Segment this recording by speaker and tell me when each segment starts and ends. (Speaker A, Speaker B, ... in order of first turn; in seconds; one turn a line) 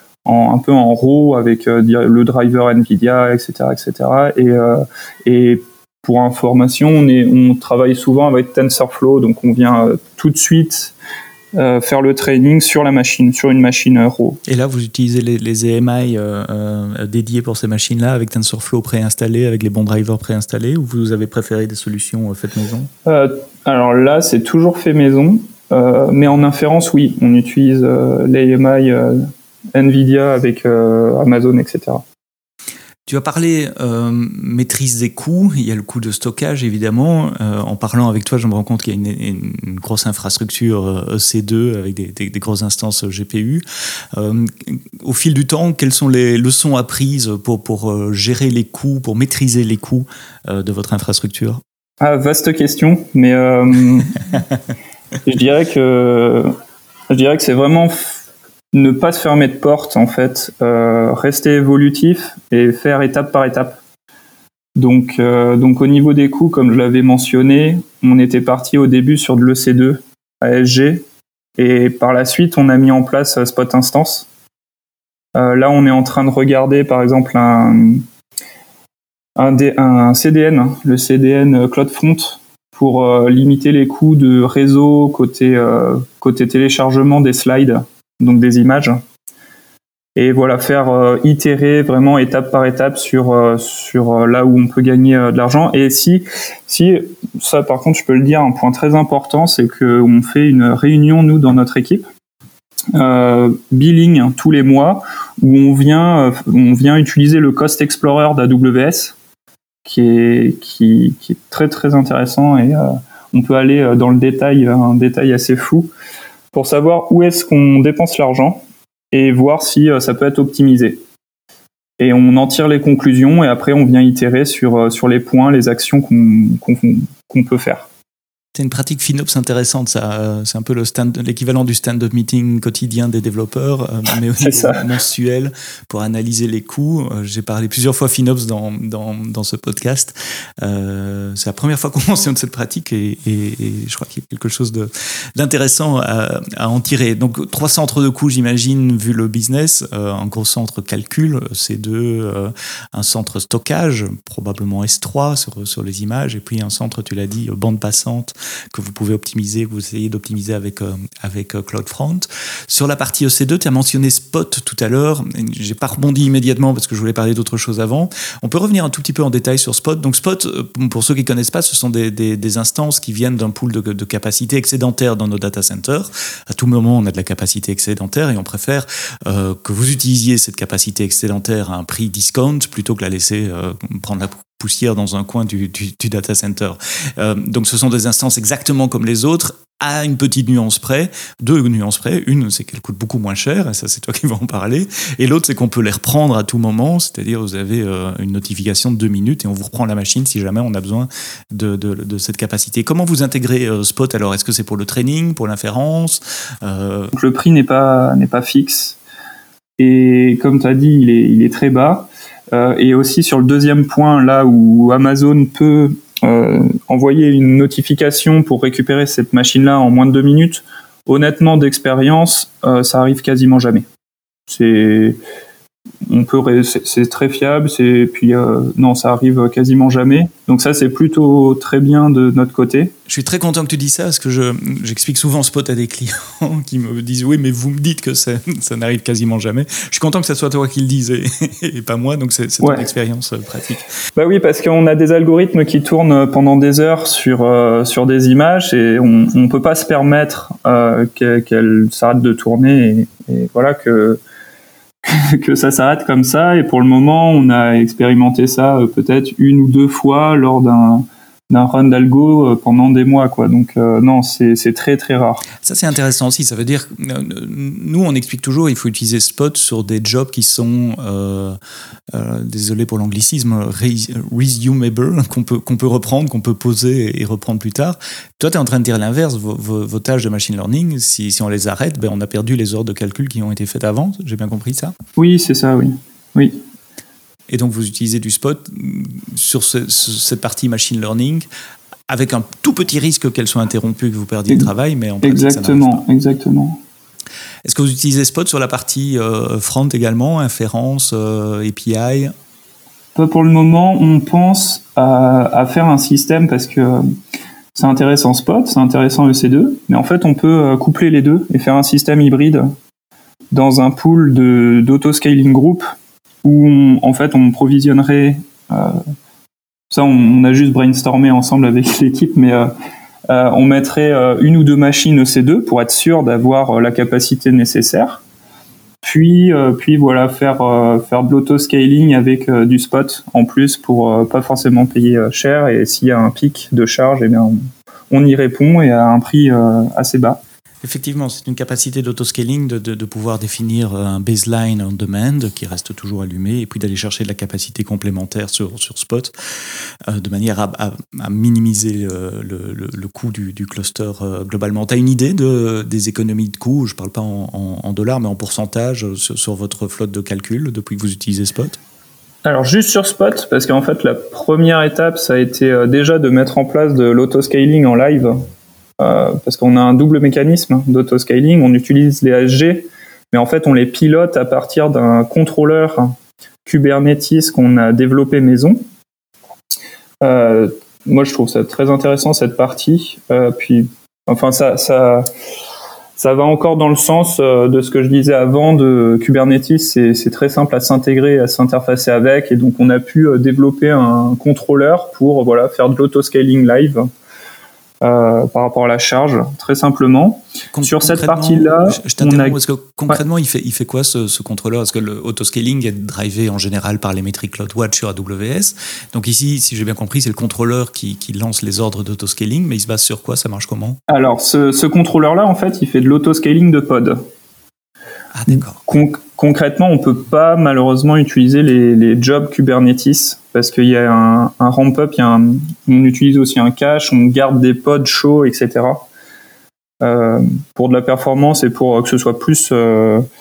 Speaker A: 0.2-10.9
Speaker A: 11.5-14.4
Speaker B: 14.5-22.9
Speaker A: 23.1-32.0
Speaker B: 33.1-43.6
Speaker B: 44.1-51.6
Speaker A: 52.0-54.2
Speaker A: 55.2-56.5
Speaker A: 57.1-58.2
Speaker A: 58.7-63.8
Speaker A: 64.8-71.0
Speaker A: 71.6-74.3
Speaker A: 75.3-78.0
Speaker A: 79.4-89.0
Speaker A: 90.2-102.1
Speaker A: 103.0-109.1
Speaker A: 109.8-115.9
Speaker A: 116.5-121.0
Speaker A: 122.0-127.9
Speaker B: 128.6-207.1
Speaker A: 134.4-134.8
Speaker A: 207.1-209.0
Speaker A: 209.8-223.9
Speaker A: 224.5-225.2
Speaker A: 226.1-232.9
Speaker B: 233.1-243.9
Speaker A: 242.6-242.9
Speaker A: 244.2-254.2
Speaker A: 255.0-265.4
Speaker B: 265.6-271.6
Speaker B: 272.1-284.9
Speaker A: 285.2-286.6
Speaker B: 287.5-291.5
Speaker B: 292.1-296.0
Speaker A: 295.2-296.8
Speaker B: 297.6-302.3
Speaker A: 303.1-307.1
Speaker A: 307.8-312.7
Speaker A: 313.5-315.9
Speaker A: 316.4-319.0
Speaker A: 319.9-322.7
Speaker A: 323.3-328.2
Speaker A: 329.0-340.4
Speaker B: 340.8-361.8
Speaker A: 362.4-368.4
Speaker A: 369.0-376.1
Speaker A: 376.6-378.8
Speaker A: 380.2-385.3
Speaker A: 386.2-397.1
Speaker A: 398.0-402.6
Speaker B: 400.7-414.0
Speaker A: 414.1-417.2
Speaker B: 418.3-418.8
Speaker A: 418.5-429.1
Speaker A: 430.0-433.2